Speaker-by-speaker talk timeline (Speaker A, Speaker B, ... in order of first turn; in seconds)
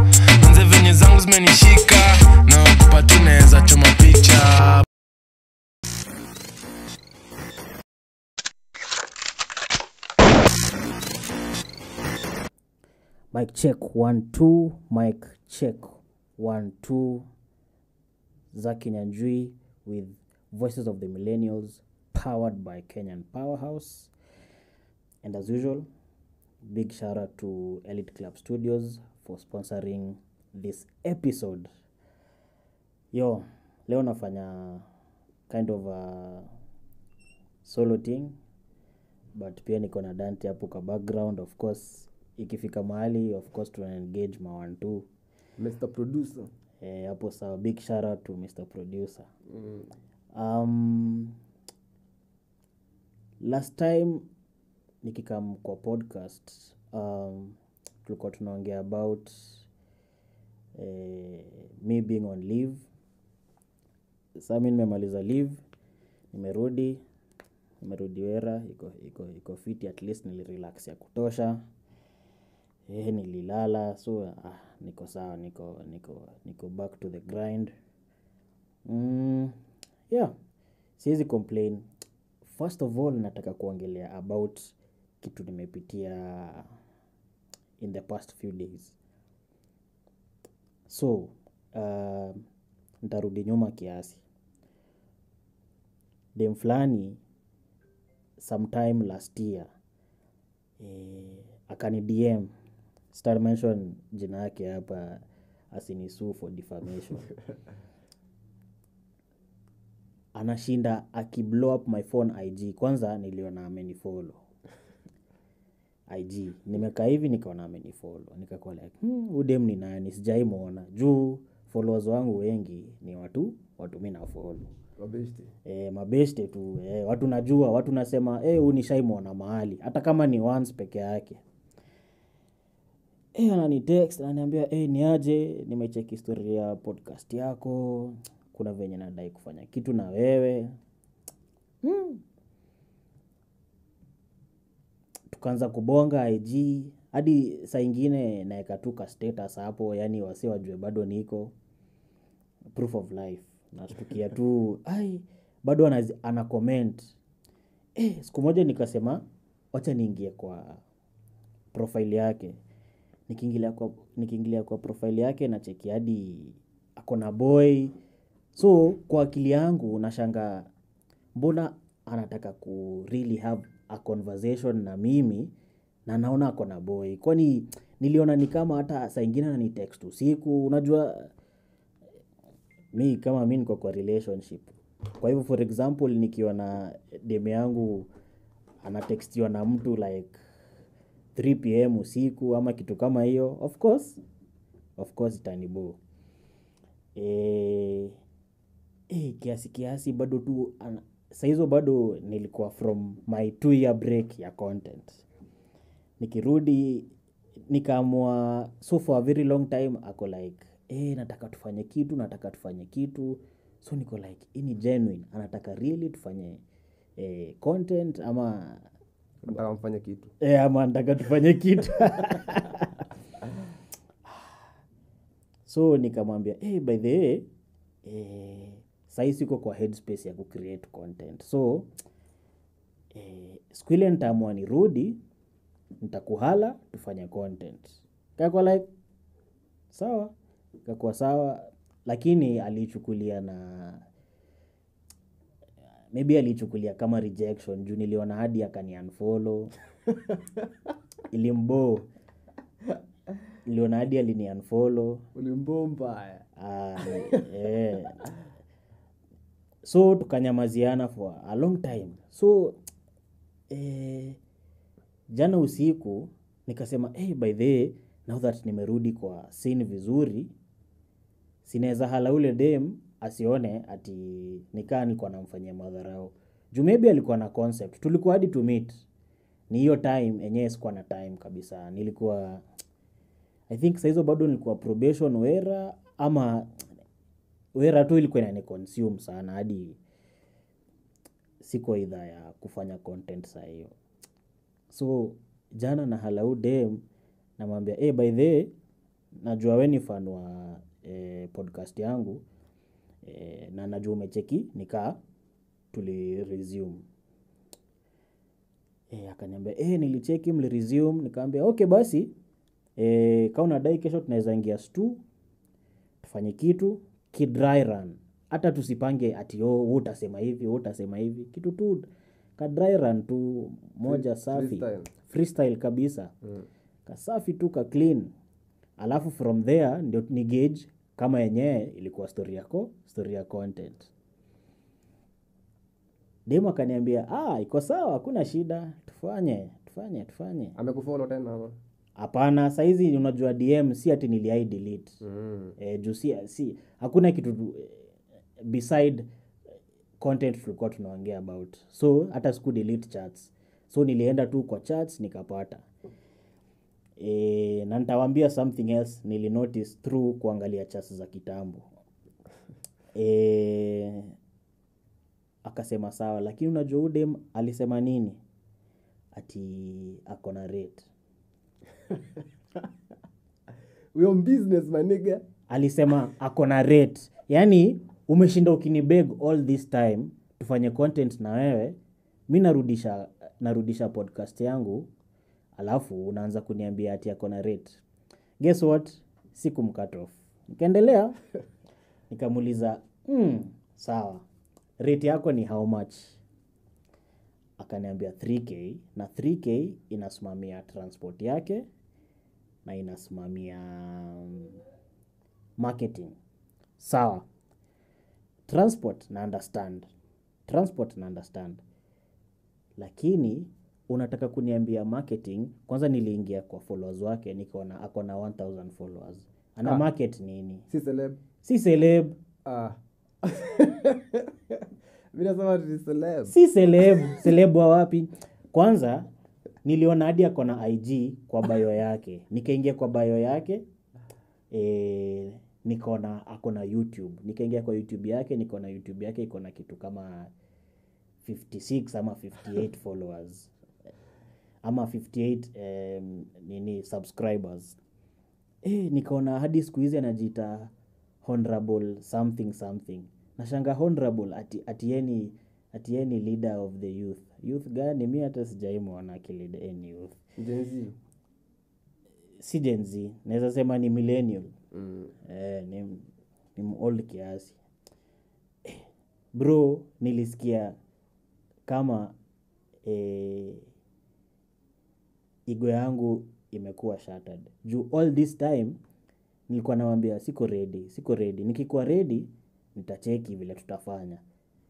Speaker A: 0.4-4.8
Speaker B: 13.3-17.2, 18.5-24.1, 25.2-25.9, 26.7-31.7, 33.1-34.9, 35.5-36.5, 37.6-38.4, 39.3-45.1, 46.8-49.3, 50.3-51.4, 53.4-54.3, 55.0-59.7, 60.8-62.8, 64.4-65.6, 66.3-67.0, 67.8-71.6, 72.9-77.7, 78.8-79.5, 81.0-81.8, 82.4-86.7, 87.8-89.0, 90.9-92.4, 93.0-94.2, 96.3-97.2, 98.4-99.7, 100.8-102.5, 103.1-107.3, 110.3-114.4, 116.1-124.7, 125.6-131.4, 133.3-140.7, 141.8-142.2, 145.3-151.5, 152.7-157.1, 158.0-160.8, 161.7-162.6, 163.3-167.9, 168.5-170.7, 171.3-175.5, 176.1-181.3, 182.9-188.1, 188.8-190.4, 191.3-194.2, 195.0-196.0, 197.1-198.2, 199.1-205.2, 206.2-207.1, 207.7-216.6, 217.2-218.8, 220.4-223.0, 225.7-227.5, 228.0-231.9, 233.1-235.2, 236.0-238.8, 239.9-240.3, 240.8-244.0, 246.1-249.7, 251.3-252.1, 253.6-255.2, 256.6-258.2, 259.8-262.8, 263.7-264.4, 265.3-270.5, 271.6-279.0, 279.7-282.6, 283.7-286.7, 287.7-290.0, 291.6-293.9, 294.9-297.0, 297.6-298.7, 299.4-302.4, 303.2-305.2, 305.9-307.0, 309.1-312.3, 313.0-315.2, 316.2-326.3, 327.1-328.3, 329.0-334.1, 336.5-340.8, 342.2-345.2, 345.8-348.0, 348.6-349.3, 350.2-355.8, 357.2-361.8, 363.1-364.3, 365.6-368.4, 369.3-371.1, 375.7-382.0, 382.5-385.1, 385.8-388.0, 388.6-391.4, 392.3-394.4, 395.0-396.4, 397.8-401.9, 402.8-404.8, 405.8-406.4, 407.0-407.4, 408.7-410.1, 410.7-411.8, 413.0-420.9, 421.6-422.4, 426.5-429.3, 429.8-433.8, 434.7-440.5, 441.4-443.7, 444.8-448.0, 448.8-450.9, 451.4-460.4, 462.6-464.7, 465.4-467.8, 468.8-470.9, 471.9-472.3, 473.0-473.9, 475.7-479.0, 479.7-484.4
Speaker C: 45.6-46.5, 49.5-49.9, 125.0-125.5, 219.4-220.3, 250.1-250.7, 255.3-256.4, 257.0-257.4, 324.0-325.1, 340.8-341.8, 345.2-345.8, 374.1-375.4, 420.9-421.4, 422.6-426.5, 460.6-461.1, 464.9-465.3